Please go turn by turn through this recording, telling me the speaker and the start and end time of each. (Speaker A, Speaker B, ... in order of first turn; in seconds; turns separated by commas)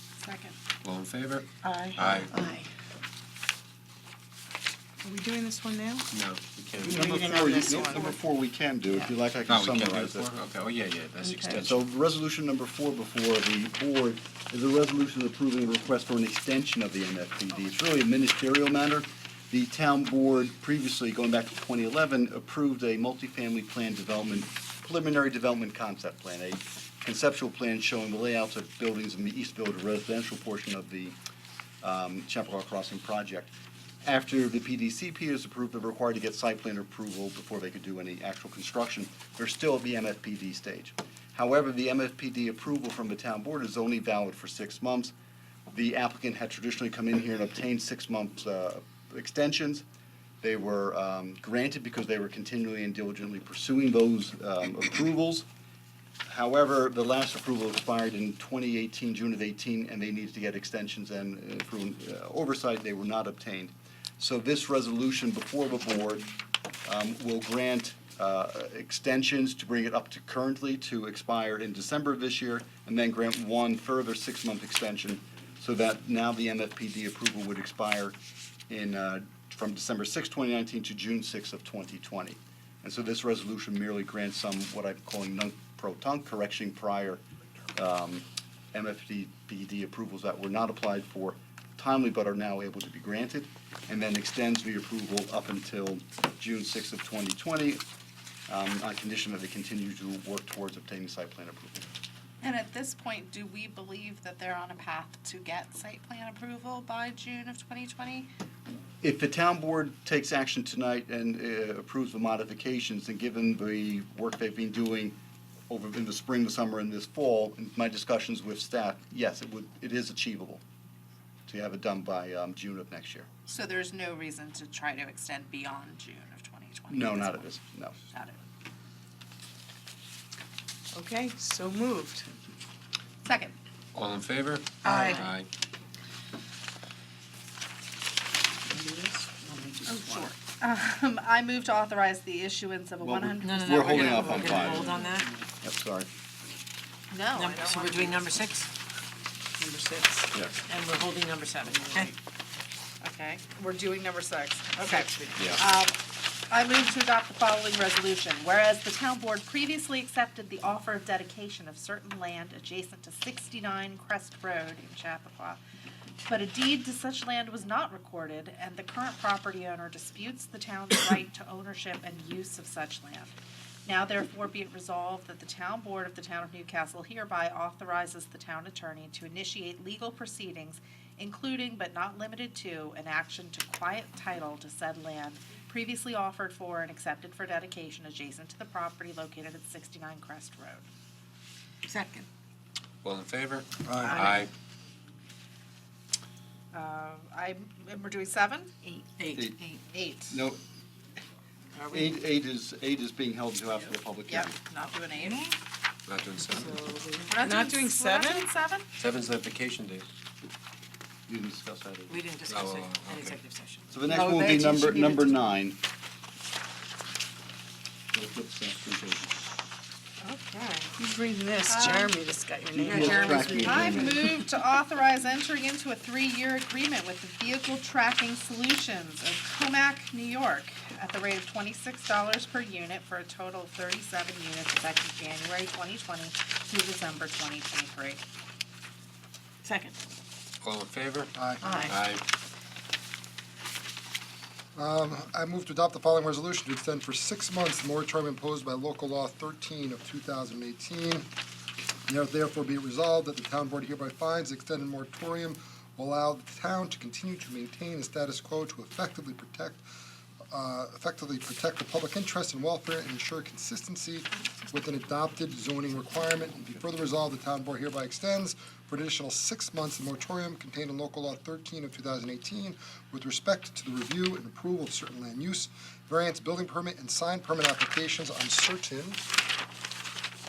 Speaker A: 0.2-0.5, Speaker B: 0.8-2.3, Speaker C: 1.7-2.7, Speaker C: 5.0-6.0, Speaker B: 6.1-7.1, Speaker C: 6.8-8.2, Speaker D: 6.8-10.3, Speaker C: 8.8-9.1, Speaker B: 9.5-11.9, Speaker C: 11.2-11.6, Speaker D: 11.6-31.2, Speaker D: 31.8-33.5, Speaker D: 34.0-45.1, Speaker D: 45.7-49.8, Speaker D: 50.4-55.5, Speaker D: 56.2-66.3, Speaker D: 66.8-78.2, Speaker D: 78.7-87.2, Speaker D: 87.8-97.8, Speaker D: 98.5-101.9, Speaker A: 102.4-108.3, Speaker D: 109.0-115.2, Speaker D: 115.7-120.6, Speaker D: 121.5-123.3, Speaker A: 123.5-127.5, Speaker D: 126.9-127.9, Speaker A: 128.1-128.4, Speaker C: 130.9-132.3, Speaker A: 133.2-133.5, Speaker B: 133.9-135.5, Speaker C: 134.8-135.3, Speaker E: 134.8-135.2, Speaker C: 138.7-140.3, Speaker A: 139.8-145.0, Speaker D: 143.0-145.1, Speaker E: 143.4-145.3, Speaker D: 145.6-146.1, Speaker A: 147.1-148.2, Speaker E: 147.3-148.7, Speaker C: 149.6-150.3, Speaker E: 150.7-152.1, Speaker A: 153.0-165.6, Speaker E: 154.8-155.5, Speaker A: 166.2-190.8, Speaker E: 191.9-192.2, Speaker B: 193.0-194.5, Speaker F: 193.8-194.2, Speaker E: 194.2-194.4, Speaker A: 196.7-200.4, Speaker E: 199.2-199.5, Speaker D: 200.3-200.6, Speaker E: 201.8-202.2, Speaker D: 201.9-204.6, Speaker A: 204.2-205.6, Speaker E: 205.1-205.4, Speaker B: 206.1-206.8, Speaker C: 206.6-208.4, Speaker A: 207.3-208.9, Speaker B: 209.0-210.1, Speaker D: 211.3-212.2, Speaker E: 212.1-214.0, Speaker B: 212.5-213.4, Speaker D: 213.9-215.8, Speaker A: 214.1-215.4, Speaker D: 218.1-219.3, Speaker A: 220.2-220.9, Speaker C: 221.0-224.1, Speaker A: 221.7-222.1, Speaker D: 222.7-224.3, Speaker A: 222.9-238.2, Speaker E: 223.2-223.7, Speaker C: 239.6-239.9, Speaker B: 240.6-241.3, Speaker F: 241.3-241.7, Speaker C: 241.6-241.9, Speaker B: 241.8-242.2, Speaker F: 244.8-251.3, Speaker F: 252.1-259.8, Speaker F: 260.5-279.2, Speaker D: 266.1-267.0